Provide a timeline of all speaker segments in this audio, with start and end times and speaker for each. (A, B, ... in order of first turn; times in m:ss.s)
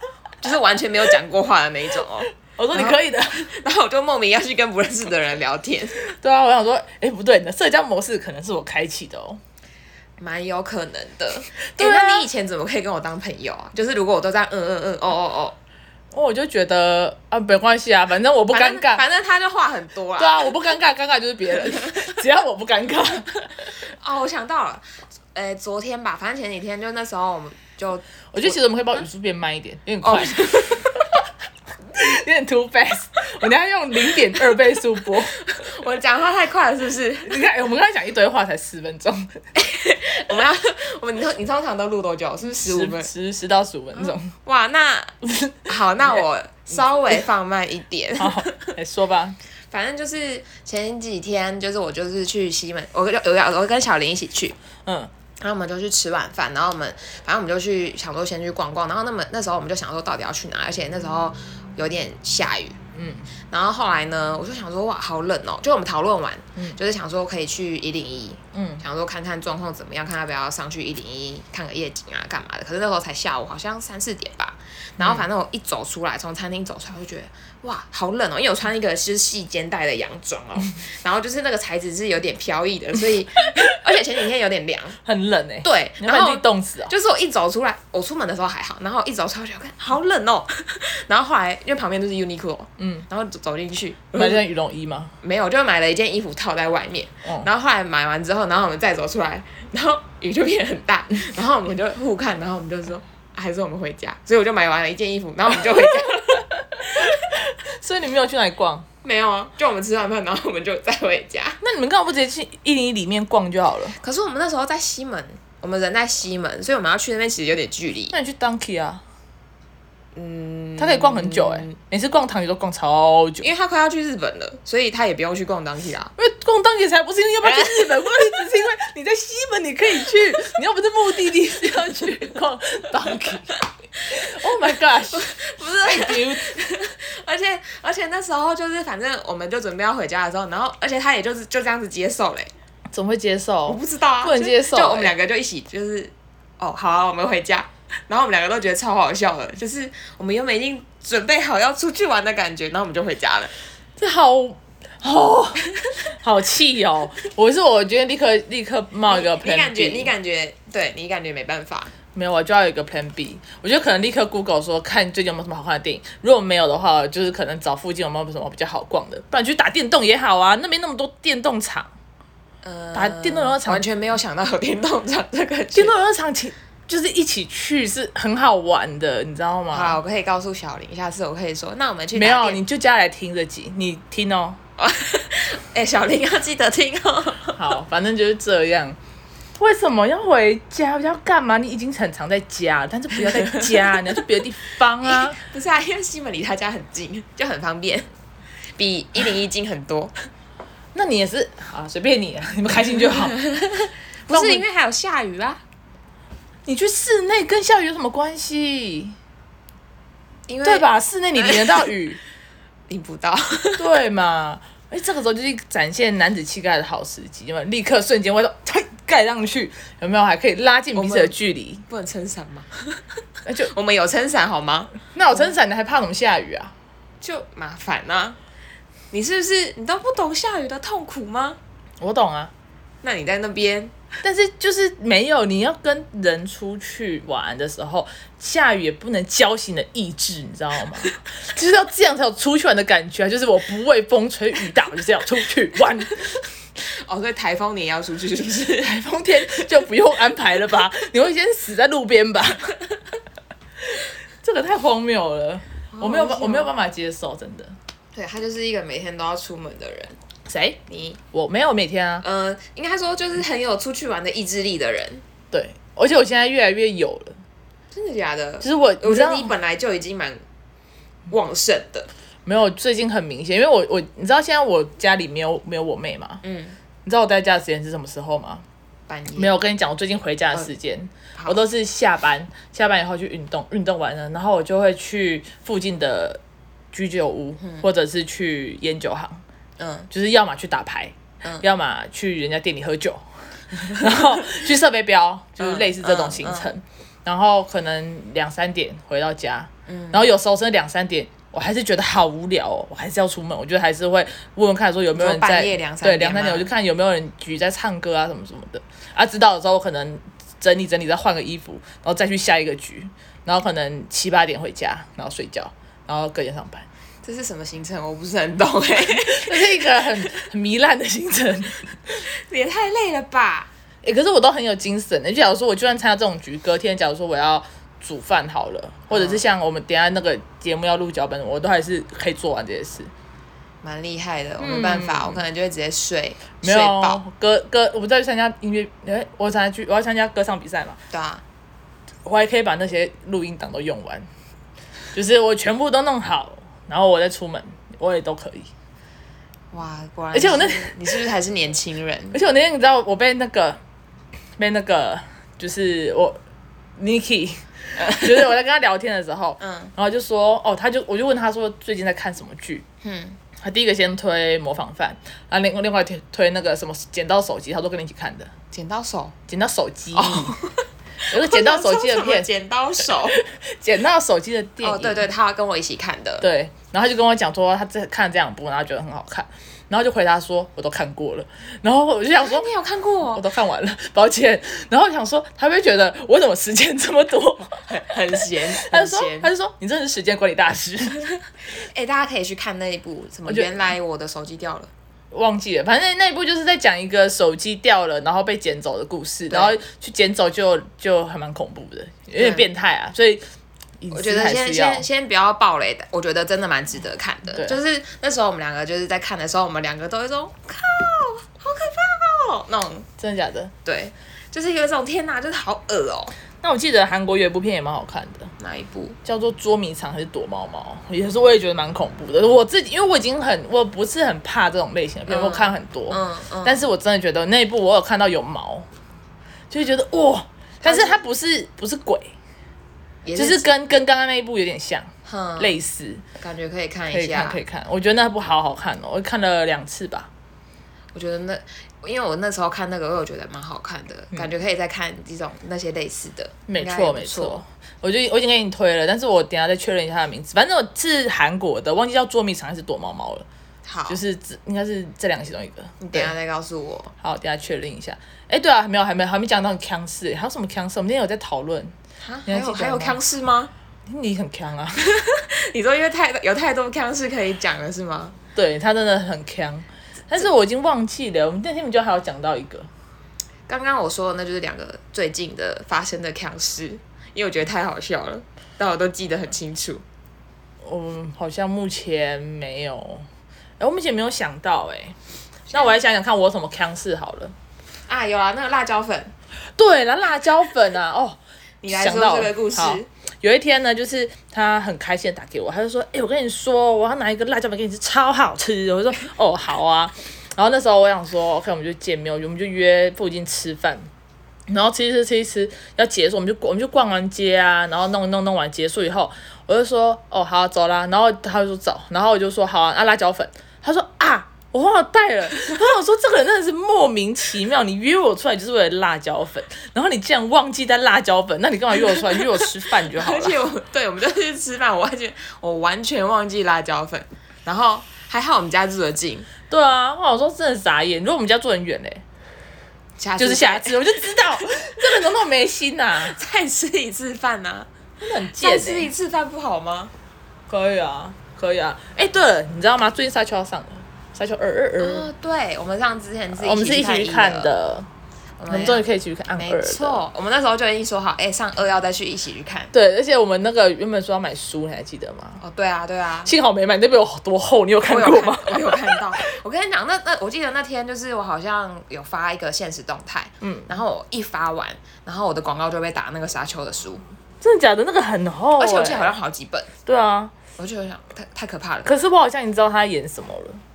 0:00.4-0:06.0 A
0:02.4-0:03.5 B
0:06.0-0:09.4 B
0:10.2-0:15.6 A
0:11.7-0:12.3 B
0:16.1-0:19.0 B
0:18.5-0:20.7 A
0:20.2-0:23.7 B
0:23.9-0:29.0 A
0:28.3-0:30.6 B
0:30.0-0:31.0 A
0:31.9-0:35.5 B
0:35.4-0:37.4 A
0:37.2-0:39.3 B
0:39.5-0:43.1 A
0:42.4-0:44.3 B
0:43.9-0:48.7 A
0:45.2-0:45.7 B
0:48.2-0:49.4 B
0:49.7-0:54.6 A
0:54.8-0:55.1 B
0:55.4-1:02.8 A
1:02.9-1:03.3 B
1:03.5-1:25.0 A
1:08.5-1:08.8 B
1:15.0-1:15.3 B
1:25.0-1:26.9 B
1:25.6-1:34.4 A
1:32.8-1:33.0 B
1:34.1-1:35.1 B
1:35.2-1:46.4 A
1:46.5-1:48.8 B
1:49.0-1:51.6 A
1:51.6-1:54.0 B
1:54.0-1:58.1 A
1:58.1-1:59.0 B
2:00.1-2:01.7 A
2:00.8-2:03.5 B
2:03.4-2:06.1 A
2:06.2-2:16.5 B
2:07.4-2:08.4 A
2:15.1-2:22.5 A
2:22.9-2:25.1 B
2:23.6-2:33.5 A
2:34.0-2:35.6 B
2:36.2-2:40.1 B
2:39.1-2:41.9 A
2:42.1-2:51.9 B
2:52.6-2:55.9 A
2:52.9-2:53.9 B
2:55.7-3:00.0 B
2:59.7-3:02.6 A
3:02.1-3:04.6 B
3:04.8-3:07.6 A
3:07.6-3:09.0 B
3:09.6-3:15.4 B
3:13.2-3:14.0 A
3:15.0-3:18.1 A
3:18.7-3:20.1 A
3:20.9-3:23.4 B
3:23.3-3:25.6 A
3:24.3-3:24.6 B
3:26.6-3:29.1 B
3:30.5-3:31.9 A
3:30.6-3:32.2 B
3:32.9-3:33.8 A
3:33.8-3:41.8 B
3:40.9-3:41.4 A
3:41.9-3:45.0 A
3:43.4-3:43.7 B
3:45.0-3:46.7 B
3:47.2-3:48.4 A
3:49.1-3:51.6 A
3:52.0-3:52.5 B
3:53.0-3:53.9 A
3:54.2-4:06.4 B
4:07.0-4:09.0 A
4:08.8-4:12.7 B
4:14.4-4:17.8 B
4:15.9-4:16.7 A
4:18.1-4:20.2 A
4:20.5-4:22.2 B
4:20.8-4:21.2 A
4:22.2-4:25.2 A
4:25.5-4:27.4 B
4:27.9-4:30.4 A
4:28.6-4:29.5 B
4:31.3-4:32.1 A
4:32.4-4:36.4 B
4:36.4-4:36.8 A
4:37.0-4:38.6 B
4:39.1-4:39.5 A
4:39.4-4:46.4 B
4:46.9-4:49.4 B
4:47.6-4:47.9 A
4:49.8-4:50.1 A
4:50.1-5:16.8 B
4:53.7-4:54.4 A
4:55.6-4:56.7 A
4:59.9-5:00.2 A
5:05.1-5:06.7 A
5:17.2-5:20.3 A
5:19.2-5:22.1 B
5:22.3-5:23.7 A
5:24.0-5:33.1 B
5:29.1-5:29.4 A
5:33.8-5:37.2 A
5:34.6-5:35.4 B
5:36.6-5:41.0 B
5:41.1-5:41.4 A
5:42.2-5:44.3 B
5:45.1-5:48.7 B
5:49.7-5:52.4 A
5:50.3-5:51.0 B
5:52.3-5:53.8 B
5:54.6-5:56.4 B
5:57.0-6:02.8 B
5:58.1-5:58.4 A
5:59.6-5:59.9 A
6:03.0-6:03.4 A
6:03.5-6:08.6 B
6:08.7-6:09.4 A
6:09.5-6:10.6 B
6:10.1-6:13.4 A
6:11.3-6:12.5 B
6:13.4-6:15.3 B
6:14.8-6:16.5 A
6:16.4-6:22.7 B
6:22.4-6:23.4 A
6:23.3-6:27.8 B
6:27.8-6:29.5 A
6:28.6-6:31.4 B
6:31.8-6:34.9 A
6:33.5-6:33.8 B
6:35.3-6:43.4 B
6:39.5-6:39.8 A
6:42.4-6:42.7 A
6:44.0-6:45.0 B
6:44.1-6:53.1 A
6:47.5-6:47.8 B
6:53.2-6:53.7 B
6:53.8-6:56.3 A
6:56.6-6:58.5 B
6:58.6-6:59.2 A
6:59.2-7:08.9 B
7:05.3-7:06.8 A
7:09.7-7:12.3 B
7:10.8-7:11.2 A
7:13.2-7:13.7 A
7:13.3-7:16.3 B
7:15.2-7:15.8 A
7:16.4-7:17.6 A
7:17.1-7:20.3 B
7:21.1-7:27.6 A
7:26.7-7:33.4 B
7:33.8-7:34.2 A
7:34.1-7:36.3 B
7:36.0-7:37.1 A
7:37.2-7:41.9 B
7:42.2-7:43.7 A
7:42.5-7:43.2 B
7:44.1-7:45.1 B
7:45.0-7:48.4 A
7:48.5-7:52.9 B
7:53.7-8:00.0 A
8:00.8-8:03.2 B
8:03.8-8:05.2 B
8:05.7-8:07.5 B
8:08.1-8:09.3 A
8:09.8-8:24.1 B
8:11.8-8:13.1 A
8:24.7-8:43.6 B
8:42.1-8:49.5 A
8:49.6-8:52.2 B
8:53.2-8:54.2 A
8:53.4-8:56.4 B
8:55.0-8:55.2 A
8:56.2-8:57.9 A
8:58.2-8:59.1 B
8:58.6-9:00.1 A
9:00.7-9:05.3 B
9:05.0-9:07.7 A
9:06.5-9:08.1 B
9:08.6-9:12.9 A
9:08.7-9:10.2 B
9:12.9-9:15.6 B
9:15.6-9:16.5 A
9:16.4-9:19.4 B
9:18.0-9:27.2 A
9:23.6-9:24.0 B
9:27.6-9:29.3 B
9:28.8-9:29.9 A
9:30.0-9:30.6 B
9:30.7-9:32.1 A
9:32.0-9:33.8 B